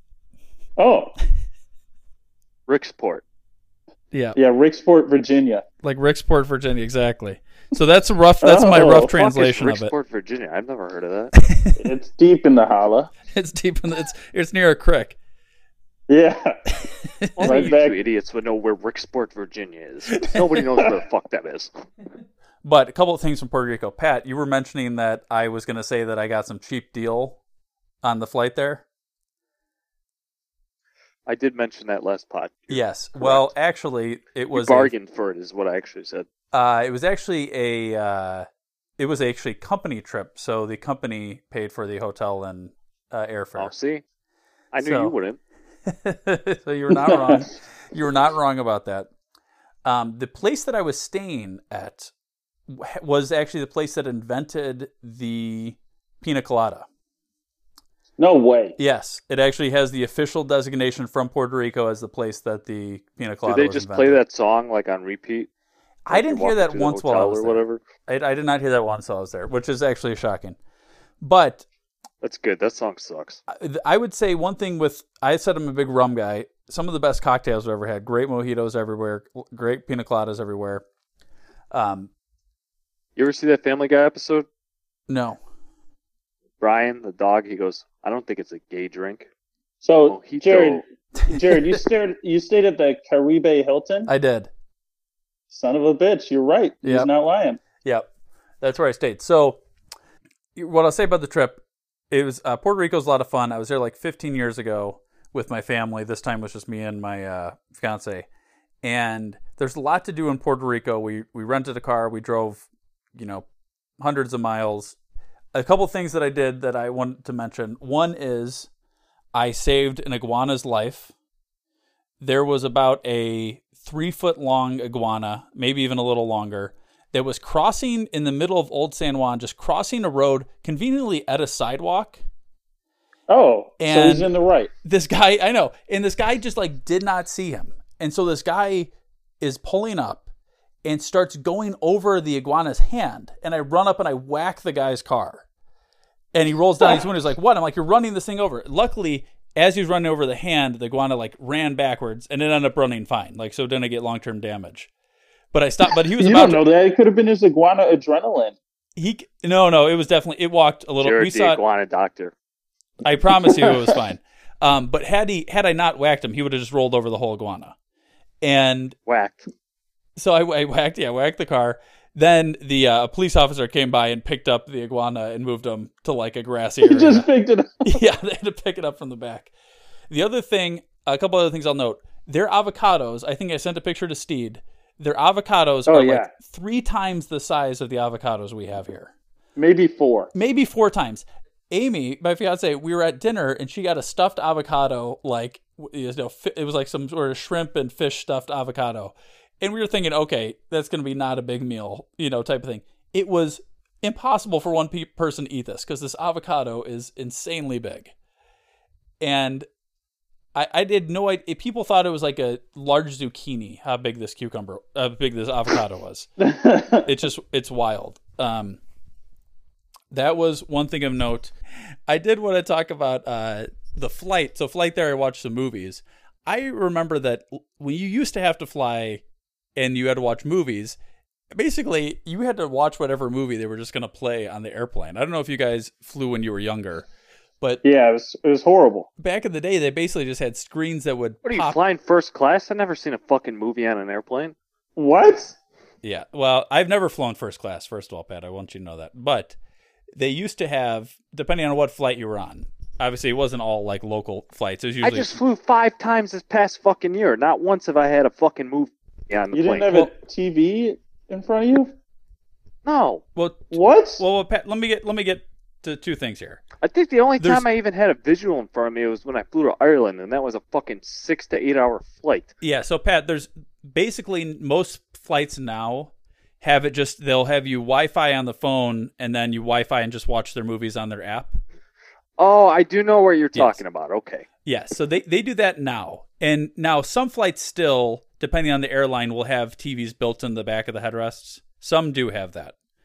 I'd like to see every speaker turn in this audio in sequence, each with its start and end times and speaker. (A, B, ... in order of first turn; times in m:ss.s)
0:00.8-0:01.1 A
0:02.7-0:03.2 B
0:04.1-0:04.4 C
0:04.4-0:05.6 A
0:05.8-0:09.9 C
0:08.4-0:09.1 A
0:08.9-0:11.3 B
0:11.4-0:11.7 C
0:11.8-0:13.1 A
0:13.3-0:15.2 C
0:16.1-0:16.6 A
0:16.8-0:17.7 C
0:17.4-0:21.7 B
0:17.4-0:18.0 A
0:20.2-0:20.6 C
0:22.6-0:27.4 C
0:28.0-0:28.8 C
0:31.3-0:33.4 B
0:32.7-0:34.9 C
0:34.5-0:36.3 B
0:36.5-0:38.5 C
0:39.0-0:43.7 C
0:43.6-0:44.0 B
0:44.7-0:45.4 B
0:44.8-0:45.1 C
0:45.8-0:49.1 C
0:46.9-0:47.5 A
0:49.8-0:52.1 C
0:52.7-0:56.9 C
0:58.2-0:58.8 A
0:58.8-1:04.2 C
1:03.4-1:05.5 B
1:06.0-1:10.6 C
1:06.1-1:07.8 B
1:11.2-1:11.6 C
1:12.2-1:13.4 B
1:13.5-1:20.8 C
1:21.7-1:22.1 C
1:23.2-1:24.4 B
1:25.1-1:25.4 C
1:26.6-1:29.3 B
1:29.8-1:34.1 A
1:30.0-1:30.8 B
1:31.2-1:31.8 C
1:34.1-1:34.5 C
1:35.5-1:37.6 A
1:36.8-1:37.1 C
1:37.8-1:38.1 C
1:38.6-1:39.6 C
1:40.6-1:48.3 C
1:48.8-1:53.4 C
1:54.0-1:55.0 C
1:55.5-1:58.7 C
1:59.3-2:01.1 C
2:02.2-2:12.2 C
2:13.3-2:14.7 A
2:13.8-2:14.3 C
2:14.8-2:18.9 C
2:19.4-2:20.3 C
2:20.8-2:25.5 C
2:26.3-2:34.9 C
2:35.5-2:36.6 C
2:36.0-2:38.6 A
2:39.0-2:41.6 C
2:41.0-2:42.3 B
2:43.0-2:47.7 C
2:43.5-2:44.0 A
2:48.4-2:49.0 C
2:49.1-2:49.5 B
2:50.2-2:57.3 C
2:56.8-2:58.0 A
2:57.8-2:59.5 C
3:00.1-3:09.1 C
3:05.9-3:06.3 A
3:09.6-3:10.3 A
3:10.3-3:28.1 C
3:29.2-3:29.7 C
3:30.5-3:36.3 C
3:36.4-3:37.1 A
3:37.0-3:38.8 C
3:40.1-3:41.5 C
3:42.1-3:49.2 C
3:49.8-3:51.0 C
3:51.5-3:57.1 C
3:57.8-3:59.1 A
3:59.2-4:01.8 C
4:01.4-4:04.5 B
4:05.0-4:05.6 A
4:06.0-4:09.6 C
4:10.1-4:15.4 C
4:15.0-4:19.9 B
4:19.5-4:21.9 A
4:22.8-4:23.2 B
4:23.4-4:26.6 C
4:23.7-4:24.2 A
4:26.8-4:32.5 B
4:27.4-4:27.7 C
4:32.6-4:41.6 C
4:42.4-4:44.4 B
4:43.5-4:43.8 C
4:44.6-4:52.7 C